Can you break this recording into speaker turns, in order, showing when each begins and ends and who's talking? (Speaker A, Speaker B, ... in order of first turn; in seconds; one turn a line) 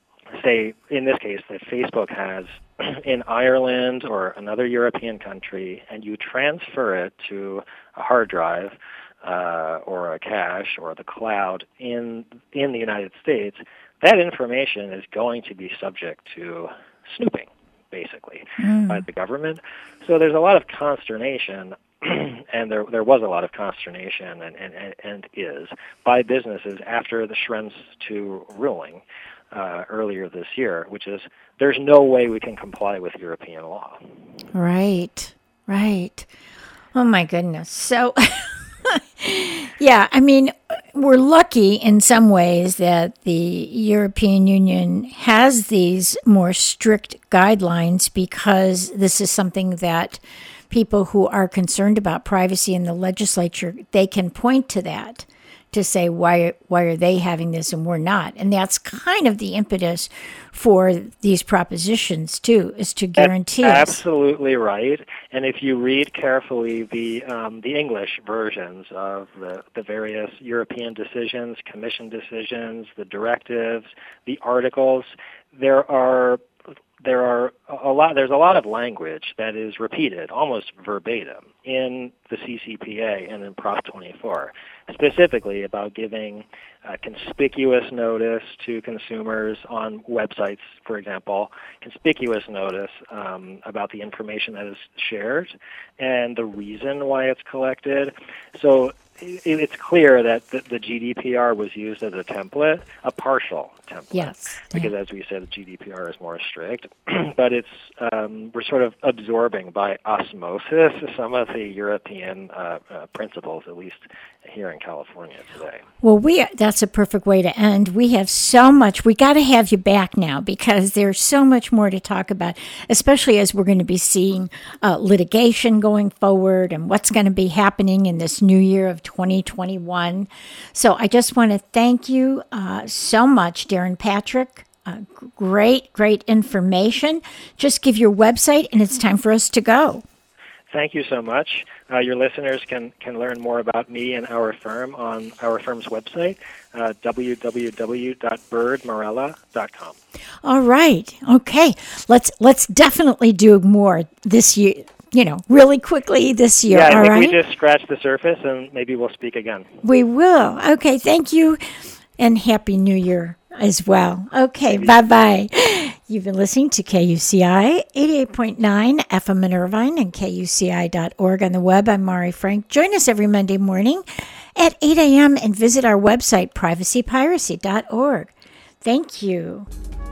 Speaker A: 0.3-34.0
Speaker B: 18.6-19.0
Speaker B: 34.5-36.3
Speaker B: 36.9-64.0
Speaker A: 63.2-76.4
Speaker A: 77.0-115.8
Speaker B: 104.1-104.9
Speaker B: 116.0-140.0
Speaker A: 140.7-150.0
Speaker B: 150.4-157.4
Speaker A: 156.7-159.7
Speaker B: 159.8-161.6
Speaker B: 162.2-179.7
Speaker A: 164.7-165.0